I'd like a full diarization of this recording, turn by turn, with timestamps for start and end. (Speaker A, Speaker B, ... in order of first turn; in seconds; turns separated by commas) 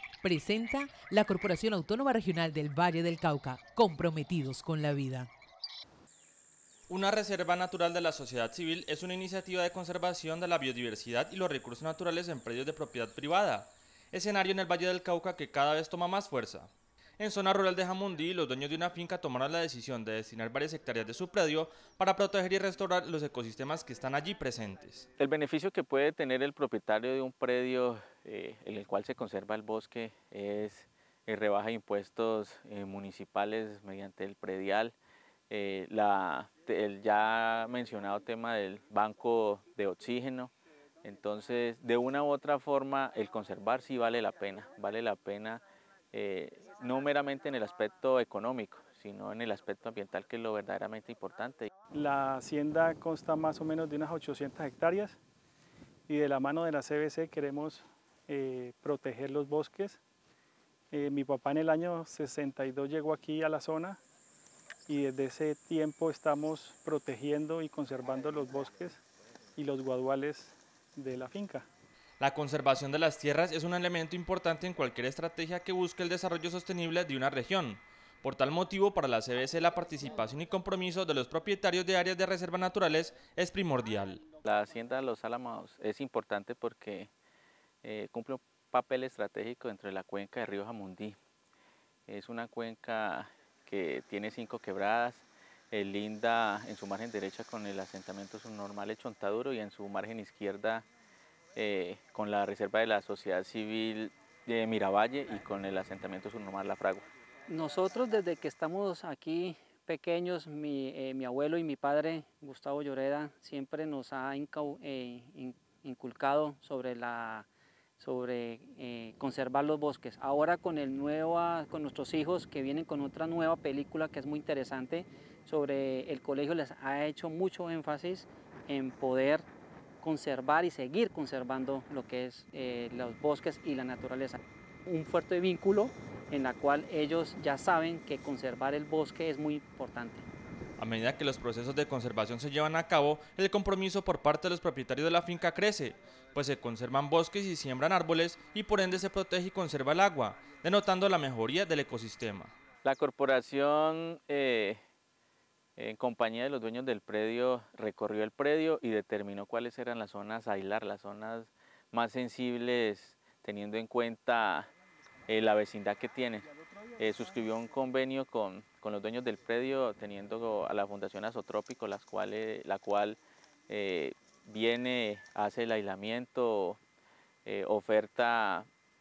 Speaker A: 0.2-5.3, Speaker B: 6.9-25.1, Speaker C: 25.2-35.0, Speaker C: 35.5-51.7, Speaker D: 51.9-55.2, Speaker D: 56.1-60.0, Speaker D: 60.9-64.0, Speaker D: 64.9-69.0, Speaker D: 69.6-71.7, Speaker B: 72.2-84.2, Speaker C: 84.5-87.1, Speaker C: 87.8-91.2, Speaker C: 92.1-100.9, Speaker C: 101.6-107.1, Speaker E: 107.5-117.5, Speaker E: 118.0-129.4, Speaker E: 130.0-140.3, Speaker B: 140.8-152.5, Speaker C: 152.8-154.8, Speaker C: 155.8-164.7, Speaker C: 165.3-173.2, Speaker C: 173.7-176.8, Speaker C: 177.5-178.7